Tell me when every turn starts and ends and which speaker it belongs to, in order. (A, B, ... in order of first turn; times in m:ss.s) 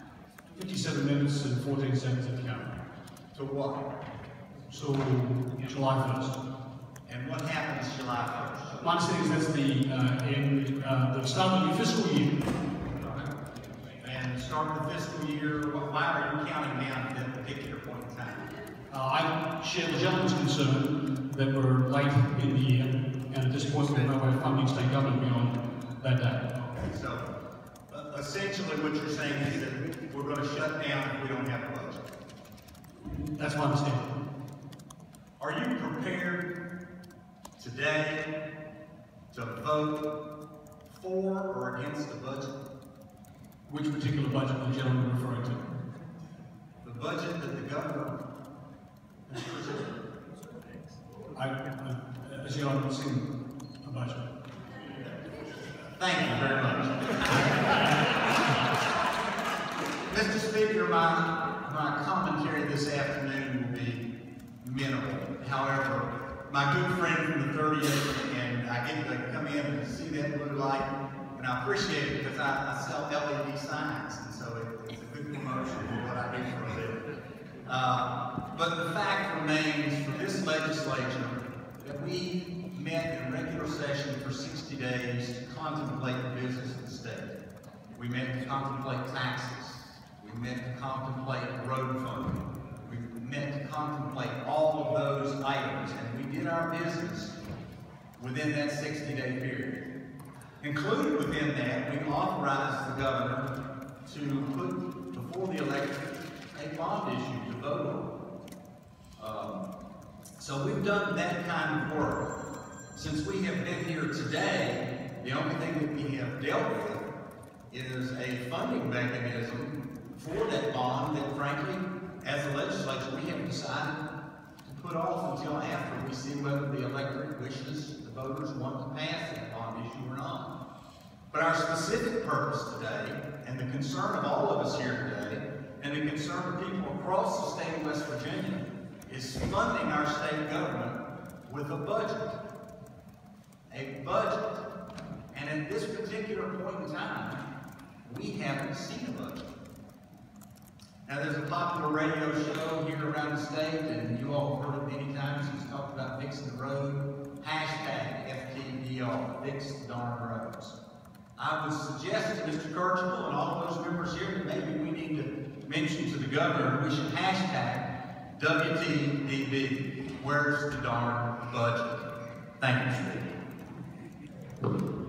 0:00.5-0:02.7 A
0:03.3-0:03.8 B
0:04.7-0:06.4 A
0:07.1-0:08.8 B
0:08.8-0:12.4 A
0:13.0-0:13.3 B
0:14.0-0:18.5 B
0:18.9-0:26.6 A
0:26.8-0:27.2 B
0:27.9-0:32.0 B
0:33.2-0:34.1 A
0:35.4-0:36.5 B
0:37.6-0:38.2 B
0:39.3-0:40.0 B
0:40.9-0:42.5 B
0:43.6-0:45.6 A
0:46.8-0:48.2 B
0:49.3-0:49.9 B
0:51.3-0:53.3 A
0:53.8-0:54.2 A
0:56.0-0:57.9 B
1:00.1-1:04.0 B
1:04.6-1:17.0 B
1:17.6-1:27.3 B
1:27.9-1:37.4 B
1:38.2-1:39.8 B
1:40.6-1:43.5 B
1:44.0-1:48.1 B
1:49.2-1:49.6 B
1:50.4-1:52.3 B
1:52.9-1:57.1 B
1:57.7-2:04.0 B
2:04.6-2:10.5 B
2:11.3-2:22.4 B
2:23.7-2:24.6 B
2:25.3-2:27.4 B
2:28.0-2:29.4 B
2:31.0-2:40.8 B
2:41.4-2:52.0 B
2:52.6-2:53.3 B